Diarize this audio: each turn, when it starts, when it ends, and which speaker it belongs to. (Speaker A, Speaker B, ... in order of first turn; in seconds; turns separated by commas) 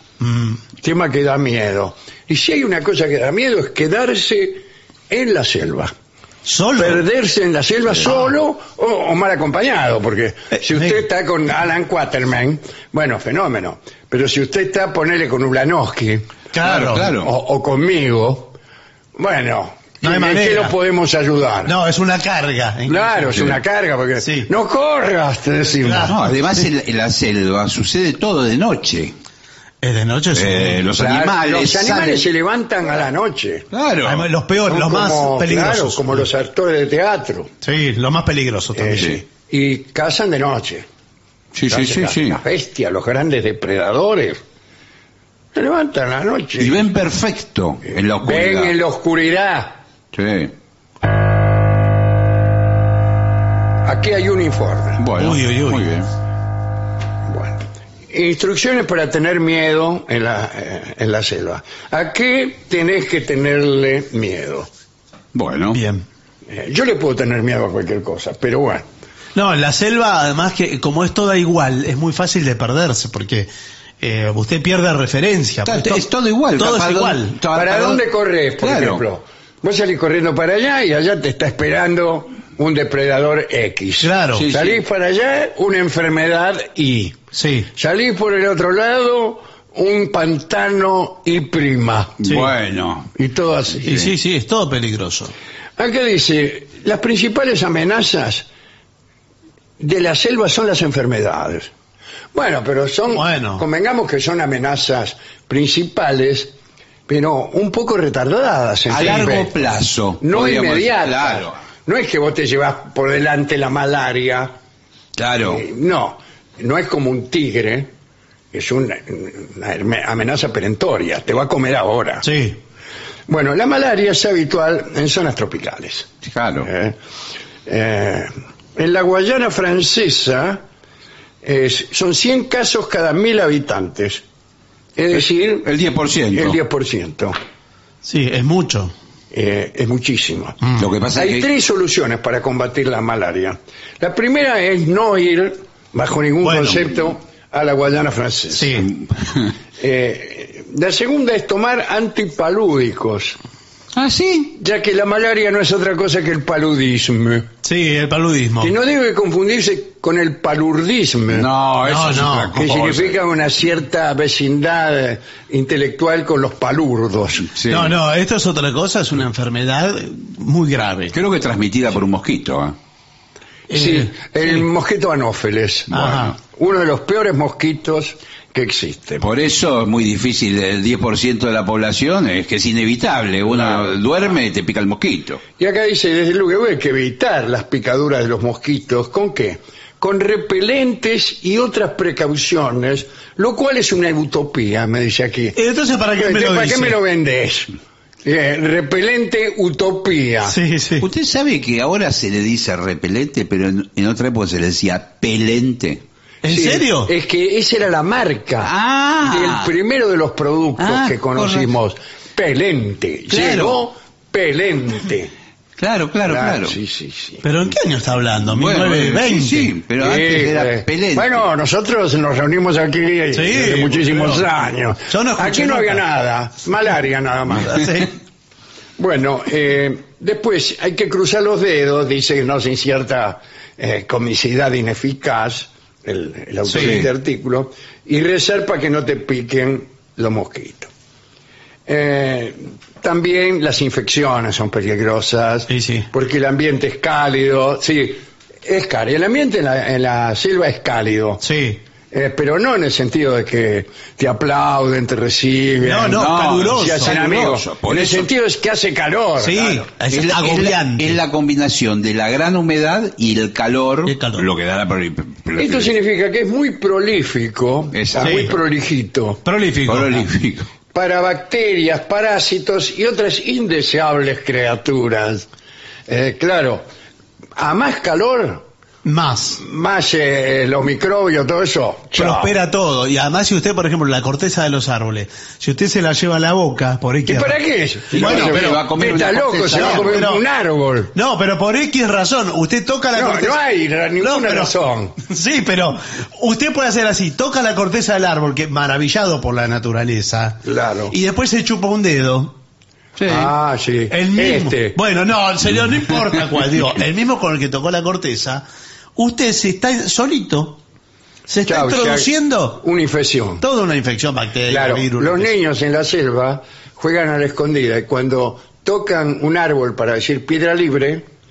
Speaker A: 0.2-0.6, Speaker B: 0.8-5.9, Speaker A: 6.5-7.0, Speaker B: 6.8-16.3, Speaker A: 10.5-11.0, Speaker A: 16.5-17.1, Speaker C: 16.6-17.3, Speaker B: 16.9-18.6, Speaker B: 19.2-21.7, Speaker A: 20.0-20.7, Speaker A: 21.6-23.5, Speaker B: 22.9-26.1, Speaker A: 24.2-24.5, Speaker A: 25.8-26.6, Speaker C: 26.1-29.1, Speaker A: 29.8-30.8, Speaker C: 30.3-32.2, Speaker B: 31.0-33.7, Speaker C: 33.7-34.3, Speaker A: 34.0-36.3, Speaker B: 34.7-37.5, Speaker A: 37.6-39.1, Speaker B: 38.8-40.9, Speaker C: 41.5-42.4, Speaker B: 41.7-44.4, Speaker B: 45.5-46.9, Speaker C: 46.6-48.8, Speaker B: 48.2-49.8, Speaker C: 50.1-50.5, Speaker B: 53.9-55.0, Speaker C: 55.0-56.1, Speaker A: 55.2-55.9, Speaker B: 57.3-57.6, Speaker B: 58.1-64.7, Speaker C: 65.3-65.8, Speaker A: 65.7-66.0, Speaker B: 66.5-68.8, Speaker A: 69.3-77.4, Speaker C: 75.7-78.0, Speaker B: 77.5-87.2, Speaker C: 78.6-79.0, Speaker A: 84.0-84.5, Speaker C: 84.4-84.8, Speaker A: 87.3-87.7, Speaker B: 87.7-92.2, Speaker C: 92.2-93.1, Speaker B: 93.2-94.1, Speaker A: 93.8-95.3, Speaker B: 95.8-98.5, Speaker B: 99.8-101.7, Speaker B: 102.3-106.5, Speaker A: 103.1-103.6, Speaker B: 107.1-109.5, Speaker C: 108.9-111.6, Speaker B: 110.2-114.5, Speaker C: 115.2-115.6, Speaker B: 115.4-117.9, Speaker B: 118.5-122.3, Speaker A: 122.2-122.6, Speaker B: 123.3-126.1, Speaker C: 126.2-126.7, Speaker B: 126.6-127.0, Speaker B: 127.7-130.6, Speaker B: 131.4-134.2, Speaker B: 135.0-135.7, Speaker C: 135.6-136.6, Speaker B: 136.3-137.4, Speaker A: 138.0-138.9, Speaker B: 139.3-140.6, Speaker C: 140.8-141.5, Speaker B: 141.1-148.7, Speaker A: 146.4-146.9, Speaker A: 148.5-148.9, Speaker C: 149.0-149.4, Speaker B: 149.8-153.4, Speaker C: 153.9-154.6, Speaker B: 154.6-157.5, Speaker A: 157.6-158.7, Speaker B: 158.6-161.5, Speaker C: 161.3-163.2, Speaker A: 161.8-162.6, Speaker B: 162.5-167.5, Speaker C: 167.5-167.9, Speaker A: 167.7-171.2, Speaker C: 171.1-172.8, Speaker A: 173.7-174.6, Speaker B: 173.7-179.2, Speaker A: 175.9-176.3, Speaker C: 175.9-176.3, Speaker C: 179.2-185.4, Speaker B: 183.5-184.0, Speaker B: 185.6-195.6, Speaker A: 195.6-197.0, Speaker B: 196.2-197.7, Speaker B: 198.2-200.6, Speaker A: 200.5-201.1, Speaker C: 201.0-206.0, Speaker A: 206.4-207.1, Speaker B: 206.5-208.7, Speaker C: 208.6-209.7, Speaker B: 209.2-215.3, Speaker C: 210.8-211.7, Speaker C: 213.3-213.8, Speaker C: 215.8-216.8, Speaker B: 216.3-217.4, Speaker A: 217.4-219.7, Speaker C: 218.5-221.5, Speaker B: 220.0-227.8, Speaker A: 223.3-224.5, Speaker A: 225.1-226.0, Speaker A: 227.6-228.1, Speaker B: 229.0-240.9, Speaker A: 236.7-237.0, Speaker C: 236.7-237.1, Speaker B: 241.9-251.4, Speaker A: 245.7-246.1, Speaker A: 251.4-251.8, Speaker B: 252.1-256.2, Speaker A: 255.8-257.1, Speaker C: 256.1-258.3, Speaker B: 256.8-259.9, Speaker A: 259.4-261.2, Speaker C: 260.1-265.9, Speaker A: 264.1-264.5, Speaker B: 265.6-269.4, Speaker C: 267.9-268.5, Speaker A: 268.2-268.5, Speaker A: 269.4-270.3, Speaker C: 269.9-270.7, Speaker B: 270.9-275.4, Speaker B: 276.1-276.9, Speaker B: 277.6-278.6, Speaker A: 279.1-279.6, Speaker B: 279.6-282.5, Speaker A: 282.1-287.6, Speaker B: 287.3-291.1, Speaker A: 288.1-288.9, Speaker C: 288.1-290.3, Speaker A: 289.7-290.4, Speaker A: 291.1-293.6, Speaker B: 293.1-295.2, Speaker A: 294.2-302.6, Speaker B: 300.6-301.1, Speaker C: 303.2-303.5, Speaker B: 303.3-305.0, Speaker A: 304.1-308.6, Speaker A: 309.2-310.8, Speaker A: 311.5-312.8, Speaker B: 311.7-313.6, Speaker A: 313.6-315.5, Speaker B: 314.7-321.2